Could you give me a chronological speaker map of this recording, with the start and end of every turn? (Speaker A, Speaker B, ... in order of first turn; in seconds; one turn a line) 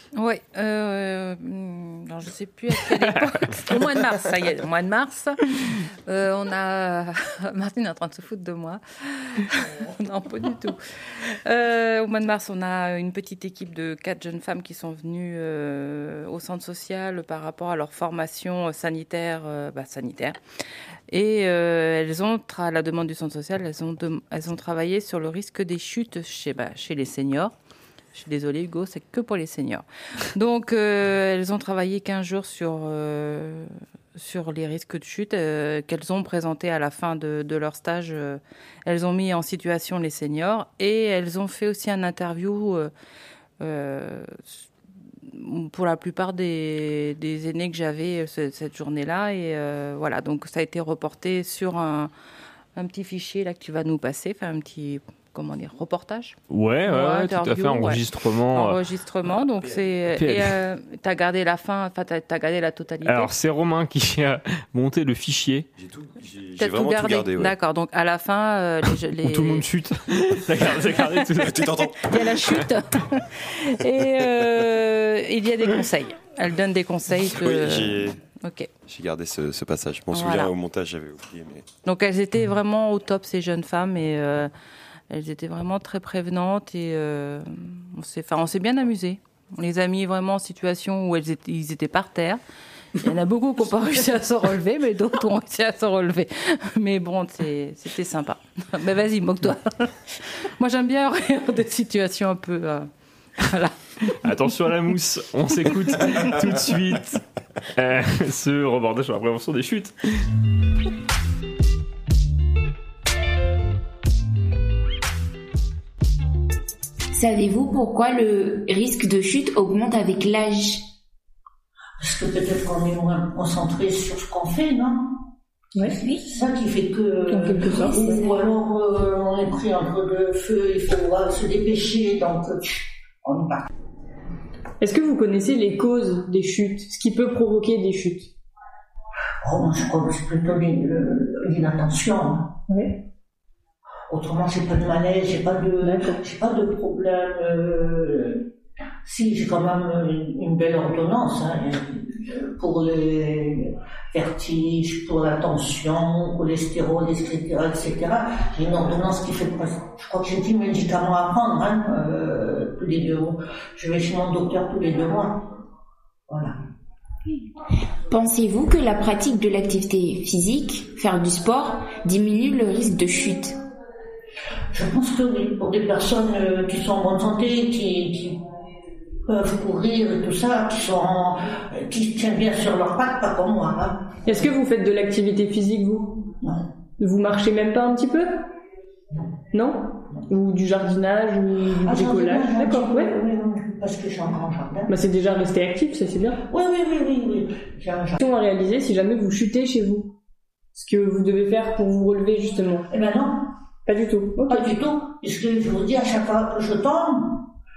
Speaker A: 0.1-20.4
Speaker A: 21.1-27.5
Speaker A: 28.1-42.9
Speaker A: 43.6-44.6
Speaker A: 45.3-52.1
Speaker A: 52.8-56.4
Speaker B: 56.5-58.8
Speaker A: 56.9-63.3
Speaker B: 60.1-60.6
Speaker B: 63.0-65.7
Speaker C: 65.8-67.5
Speaker A: 66.6-69.7
Speaker B: 69.2-71.8
Speaker C: 71.4-72.3
Speaker A: 72.0-78.7
Speaker C: 77.2-78.2
Speaker C: 78.8-81.7
Speaker A: 80.1-80.5
Speaker A: 81.8-84.5
Speaker A: 85.1-92.4
Speaker A: 93.0-99.9
Speaker A: 100.6-103.8
Speaker B: 104.2-107.2
Speaker B: 107.8-110.0
Speaker D: 117.1-120.8
Speaker E: 122.0-125.0
Speaker E: 125.8-133.6
Speaker F: 127.3-128.2
Speaker D: 127.7-128.4
Speaker F: 134.8-138.3
Speaker E: 139.4-142.5
Speaker E: 144.1-148.4
Speaker F: 145.8-146.2
Speaker E: 149.0-165.4
Speaker E: 166.3-166.6
Speaker D: 168.1-173.6
Speaker E: 174.7-178.4
Speaker E: 179.3-184.1
Speaker F: 184.2-186.3
Speaker F: 187.0-188.4
Speaker F: 189.5-193.1
Speaker E: 191.8-194.9
Speaker F: 194.9-196.4
Speaker E: 196.5-198.2
Speaker F: 198.2-200.1
Speaker F: 200.8-202.9
Speaker E: 202.9-203.5
Speaker F: 203.9-204.7
Speaker E: 204.5-207.4